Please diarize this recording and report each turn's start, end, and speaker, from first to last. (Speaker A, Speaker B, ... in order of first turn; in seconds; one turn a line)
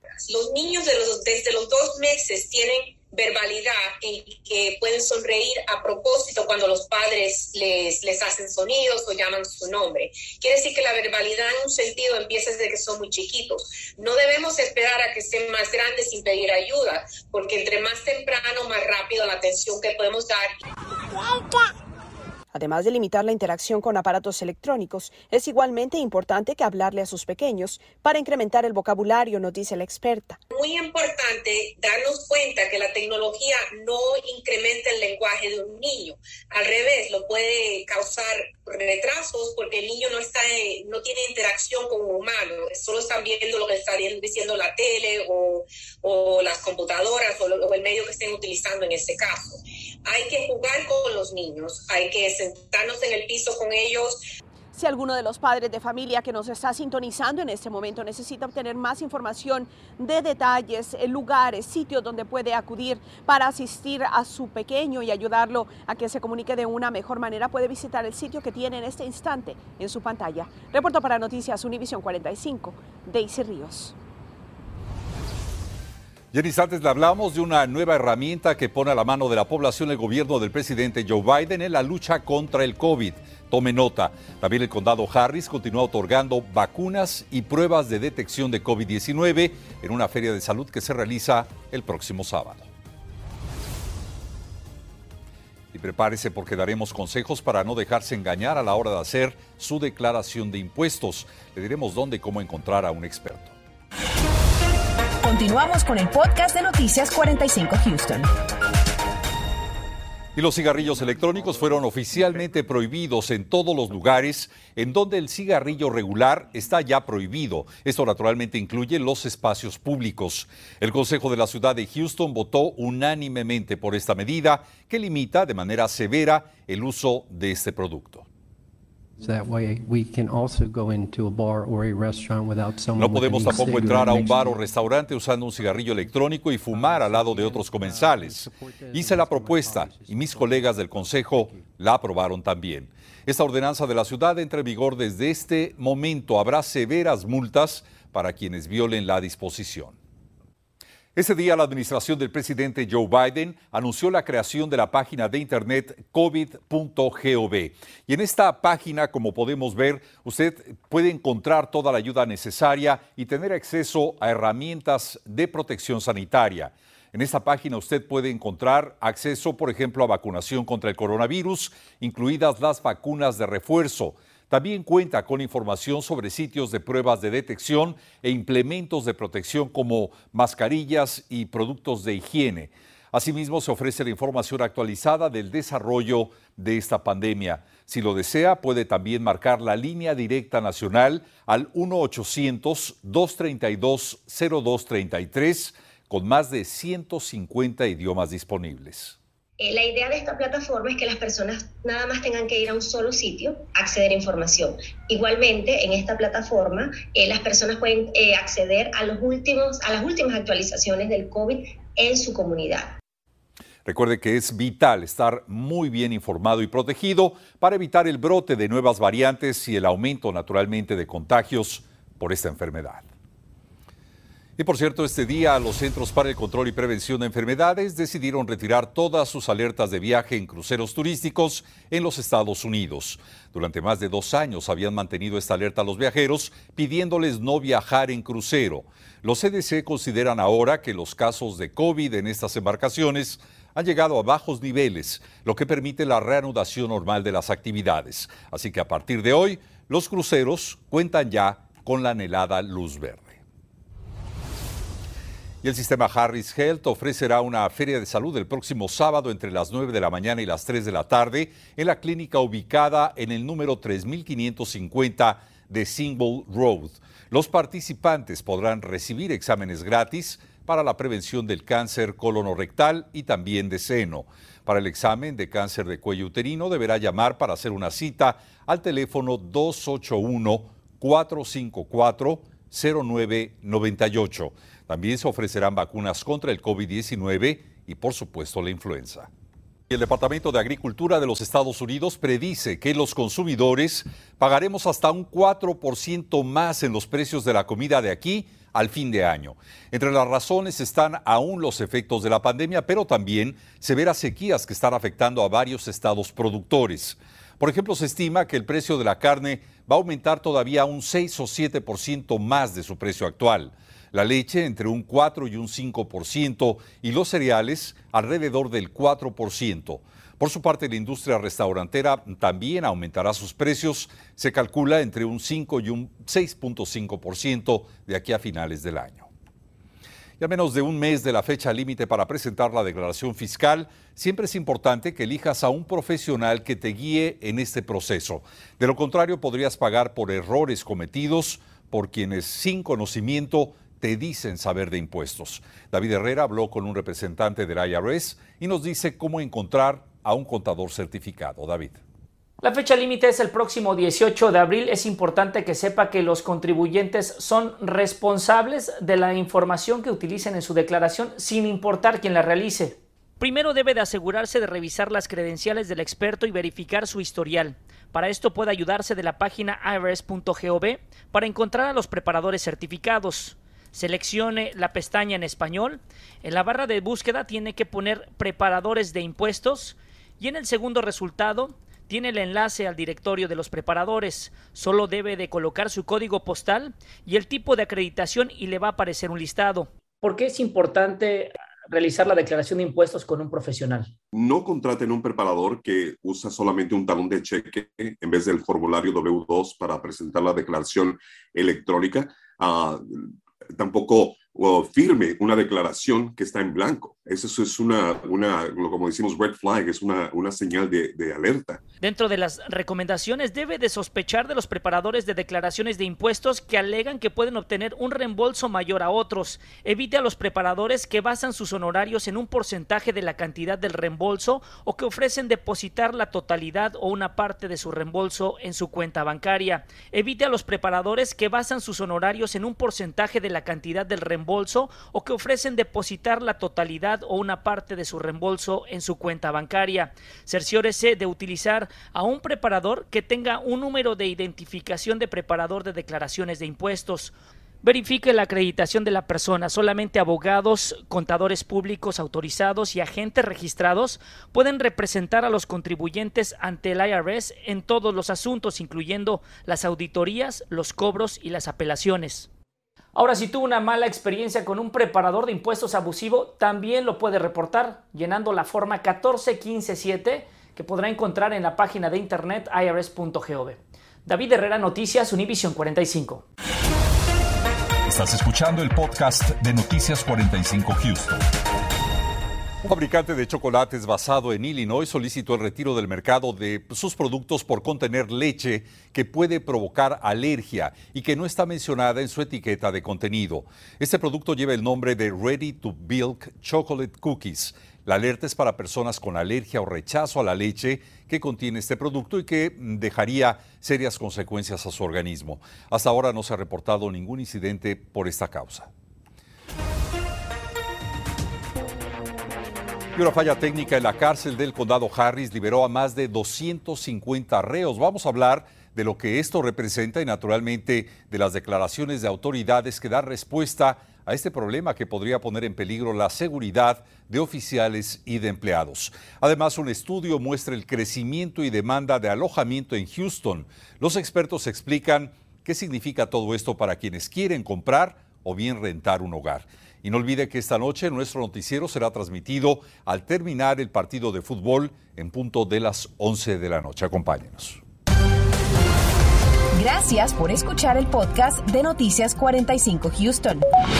Speaker A: 0.2-20.5
Speaker B: 22.5-30.4
Speaker A: 30.5-54.2
Speaker B: 54.7-73.9
Speaker C: 76.3-92.7
Speaker C: 95.7-103.6
Speaker D: 105.2-107.8
Speaker E: 105.5-108.2
Speaker C: 110.3-128.2
Speaker E: 129.2-134.8
Speaker C: 132.9-150.0
Speaker E: 135.6-141.7
Speaker C: 151.2-199.2
Speaker D: 199.6-212.9
Speaker C: 213.9-223.1
Speaker C: 224.6-253.4
Speaker C: 255.6-289.3
Speaker C: 289.9-329.3
Speaker C: 330.4-352.0
Speaker F: 352.6-394.1
Speaker G: 394.3-411.8
Speaker F: 412.0-462.5
Speaker F: 463.1-476.4
Speaker C: 478.1-481.4
Speaker C: 482.8-508.9
Speaker C: 513.1-547.8
Speaker E: 549.8-553.6
Speaker D: 549.9-553.6